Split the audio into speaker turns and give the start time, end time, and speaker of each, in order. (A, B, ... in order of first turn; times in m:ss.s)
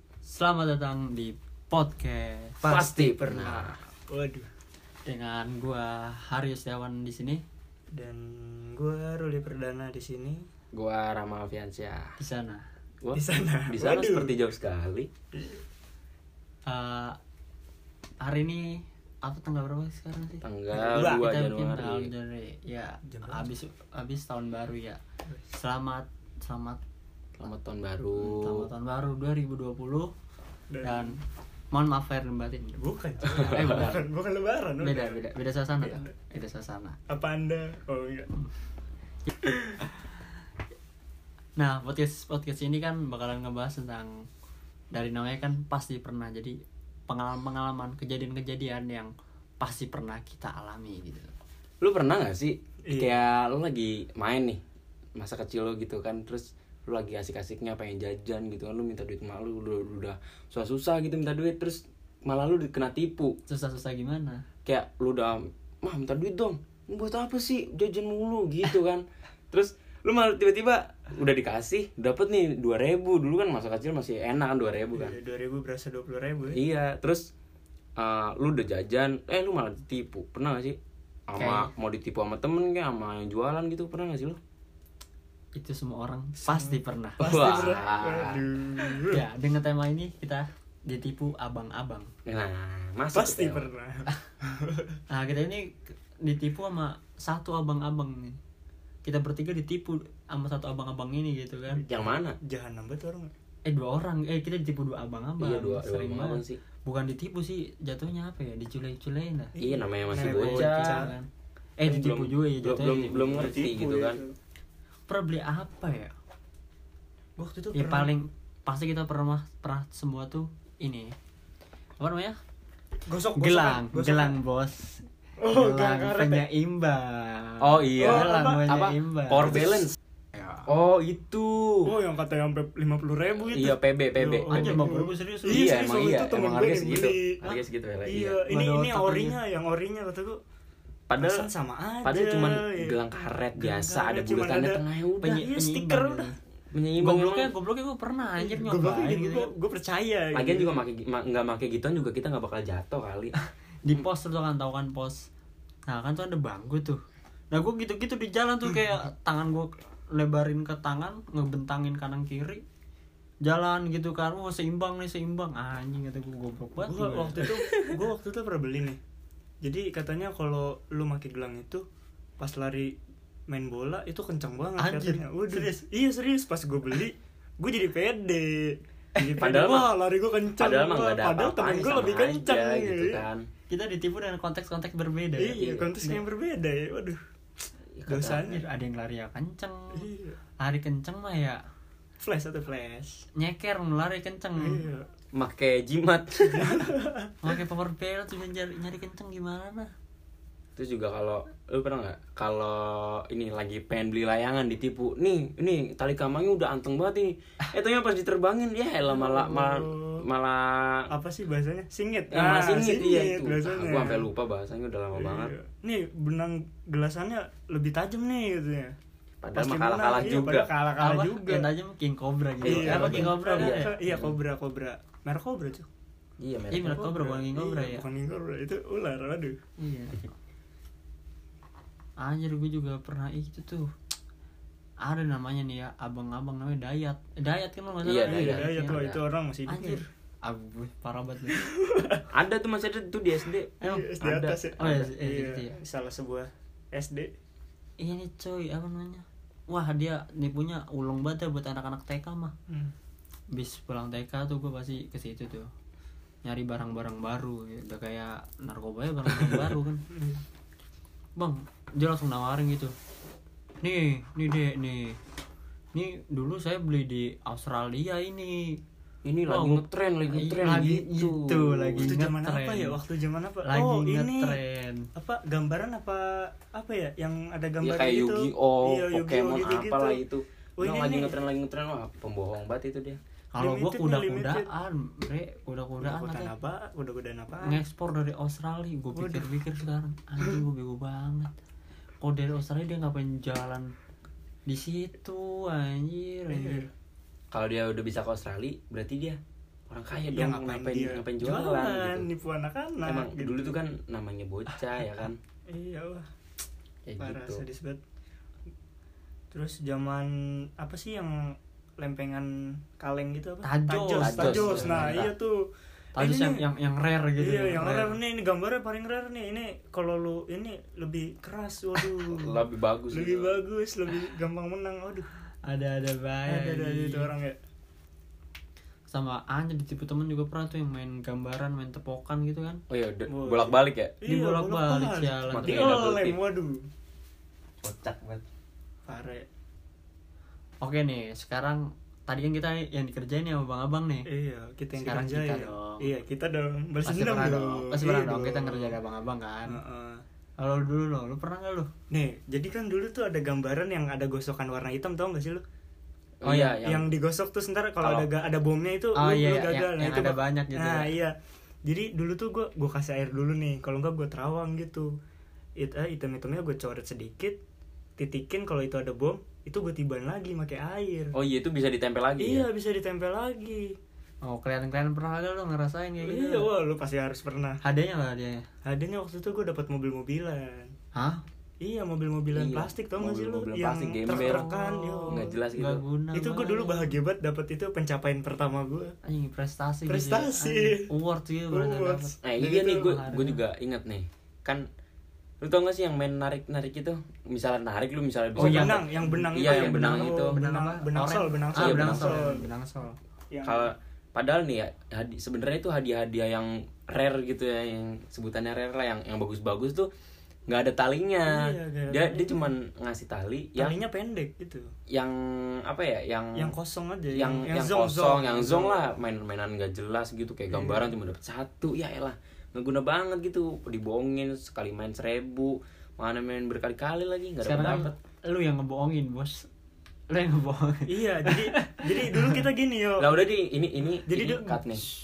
0:00.2-0:03.6 A
0:02.6-0:04.5 B
0:02.6-0:03.7 C
0:05.0-0:07.4 A
0:07.9-0:10.4 B
0:10.7-0:12.2 C
0:12.2-0:12.6 A
0:13.0-0:15.1 C
0:13.1-0:14.4 B
0:16.7-0:17.2 A
0:18.2-0:25.0 A
0:20.4-0:22.1 C
0:20.7-0:21.3 B
0:23.1-0:23.4 B
0:25.5-0:26.8 A
0:27.4-0:28.7 C
0:28.2-0:30.1 A
0:30.7-0:31.1 B
0:30.8-0:31.2 A
0:31.7-0:34.0 A
0:32.8-0:35.2 B
0:34.8-0:37.0 A
0:35.8-0:36.1 B
0:37.1-0:38.3 B
0:39.4-0:39.8 B
0:41.6-0:44.2 A
0:44.9-0:46.6 A
0:47.1-0:51.3 A
0:51.8-0:54.6 C
0:52.8-0:53.2 B
0:55.2-1:03.3 C
1:03.5-1:04.4 A
1:04.6-1:15.2 C
1:14.9-1:16.6 B
1:16.5-1:17.3 C
1:18.0-1:20.8 C
1:21.3-1:24.4 C
1:21.3-1:21.7 A
1:25.6-1:27.7 A
1:26.4-1:29.2 B
1:27.2-1:28.4 C
1:29.1-1:32.1 A
1:32.2-1:33.7 C
1:33.1-1:35.0 B
1:35.1-1:35.7 A
1:36.2-1:38.4 A
1:39.0-1:41.8 A
1:41.9-1:42.4 C
1:42.4-1:43.3 B
1:43.6-1:49.5 A
1:45.4-1:46.6 C
1:49.5-1:51.1 B
1:49.6-1:51.1 C
1:50.2-1:53.5 A
1:51.8-1:54.2 C
1:53.4-1:54.4 B
1:55.1-1:56.1 A
1:57.4-1:58.1 B
1:57.7-2:01.1 A
2:02.0-2:02.3 A
2:03.1-2:04.4 B
2:03.4-2:09.7 A
2:05.4-2:06.4 B
2:07.6-2:09.9 C
2:08.0-2:08.7 B
2:10.3-2:10.7 A
2:10.6-2:11.9 C
2:11.8-2:20.4 B
2:13.5-2:14.8 C
2:14.5-2:15.7 A
2:15.5-2:18.4 C
2:18.5-2:19.4 A
2:21.1-2:21.4 C
2:21.2-2:23.0 B
2:22.0-2:25.4 C
2:23.6-2:26.3 B
2:25.2-2:26.3 A
2:26.7-2:27.5 C
2:27.0-2:29.5 A
2:28.4-2:30.8 B
2:30.3-2:33.3 C
2:33.4-2:35.3 A
2:35.9-2:42.6 A
2:43.4-2:47.9 A
2:46.8-2:49.0 B
2:49.6-2:51.8 B
2:52.4-2:52.9 B
2:53.5-3:03.2 B
2:54.8-2:55.8 A
2:59.4-2:59.9 C
3:00.6-3:03.5 C
3:03.7-3:06.2 A
3:05.4-3:07.2 B
3:05.6-3:05.9 C
3:07.9-3:08.4 C
3:08.1-3:08.6 B
3:08.4-3:10.0 A
3:09.9-3:10.4 B
3:10.6-3:11.6 A
3:12.2-3:13.2 B
3:13.4-3:14.8 A
3:14.6-3:15.1 B
3:15.3-3:16.8 C
3:16.5-3:17.3 B
3:17.4-3:19.9 A
3:20.8-3:31.1 C
3:29.1-3:30.2 B
3:31.1-3:34.3 B
3:32.3-3:35.5 C
3:35.1-3:38.9 B
3:39.4-3:40.7 C
3:39.5-3:41.7 B
3:41.0-3:44.0 A
3:42.6-3:44.4 C
3:42.6-3:45.9 B
3:46.4-3:47.0 C
3:46.7-3:48.0 A
3:46.8-3:49.6 B
3:49.8-3:50.2 A
3:52.2-3:53.9 A
3:55.0-3:59.0 A
3:58.0-3:59.2 C
3:58.2-4:00.0 B
3:59.7-4:01.6 A
4:01.5-4:02.2 B
4:02.3-4:04.6 C
4:03.8-4:07.3 B
4:04.8-4:05.8 A
4:08.0-4:12.5 A
4:13.5-4:15.7 A
4:16.4-4:20.0 A
4:20.1-4:20.4 B
4:21.4-4:22.9 A
4:23.8-4:25.2 A
4:25.9-4:28.8 A
4:29.2-4:32.1 C
4:29.4-4:33.0 A
4:32.0-4:34.6 B
4:33.6-4:35.0 A
4:35.1-4:40.2 B
4:37.8-4:43.2 C
4:40.8-4:41.4 B
4:43.5-4:46.5 A
4:43.6-4:44.7 B
4:46.0-4:47.8 B
4:47.6-4:51.5 A
4:49.2-4:49.5 B
4:52.2-4:53.9 A
4:54.7-4:56.8 A
4:56.5-4:56.9 B
4:57.5-5:02.3 C
5:00.2-5:03.8 B
5:03.0-5:05.4 C
5:05.7-5:06.2 B
5:07.1-5:07.6 C
5:07.2-5:08.0 B
5:09.5-5:11.3 B
5:12.0-5:15.6 B
5:13.6-5:15.3 A
5:14.2-5:15.3 C
5:16.2-5:18.1 A
5:16.2-5:16.6 B
5:17.4-5:25.2 B
5:22.3-5:23.6 C
5:25.6-5:27.3 A
5:26.5-5:27.6 B
5:29.1-5:32.8 A
5:32.9-5:34.1 C
5:33.3-5:36.8 B
5:34.2-5:36.0 A
5:35.5-5:36.4 C
5:37.8-5:38.4 C
5:39.1-5:39.4 B
5:40.8-5:44.3 A
5:44.3-5:49.0 B
5:45.0-5:46.1 A
5:47.0-5:49.8 A
5:49.6-5:50.2 B
5:50.6-5:51.9 A
5:52.1-5:55.6 B
5:56.4-5:57.1 C
5:56.4-5:56.8 A
5:56.6-6:01.3 B
5:58.0-5:58.3 C
5:59.2-6:01.1 A
6:01.8-6:05.1 B
6:05.8-6:07.6 B
6:08.2-6:11.3 B
6:11.3-6:12.7 C
6:12.4-6:13.9 B
6:14.4-6:16.7 A
6:16.2-6:17.8 B
6:17.8-6:18.6 A
6:18.8-6:20.9 B
6:21.1-6:21.4 A
6:21.8-6:25.6 B
6:22.5-6:24.7 C
6:24.3-6:27.2 A
6:25.3-6:26.0 C
6:26.3-6:29.1 B
6:29.2-6:33.6 A
6:30.1-6:31.1 B
6:31.7-6:33.1 B
6:32.4-6:34.8 C
6:35.6-6:40.6 C
6:38.6-6:42.6 B
6:38.6-6:43.2 A
6:41.8-6:42.4 C
6:43.5-6:43.9 B
6:43.6-6:50.1 C
6:50.7-6:54.0 C
6:51.5-6:52.7 B
6:53.8-6:54.9 B
6:55.1-6:56.7 C
6:56.6-6:59.0 B
6:57.3-7:08.1 C
7:00.7-7:01.1 B
7:07.6-7:09.7 A
7:10.3-7:12.6 A
7:11.1-7:13.4 B
7:13.2-7:15.0 C
7:14.3-7:14.8 B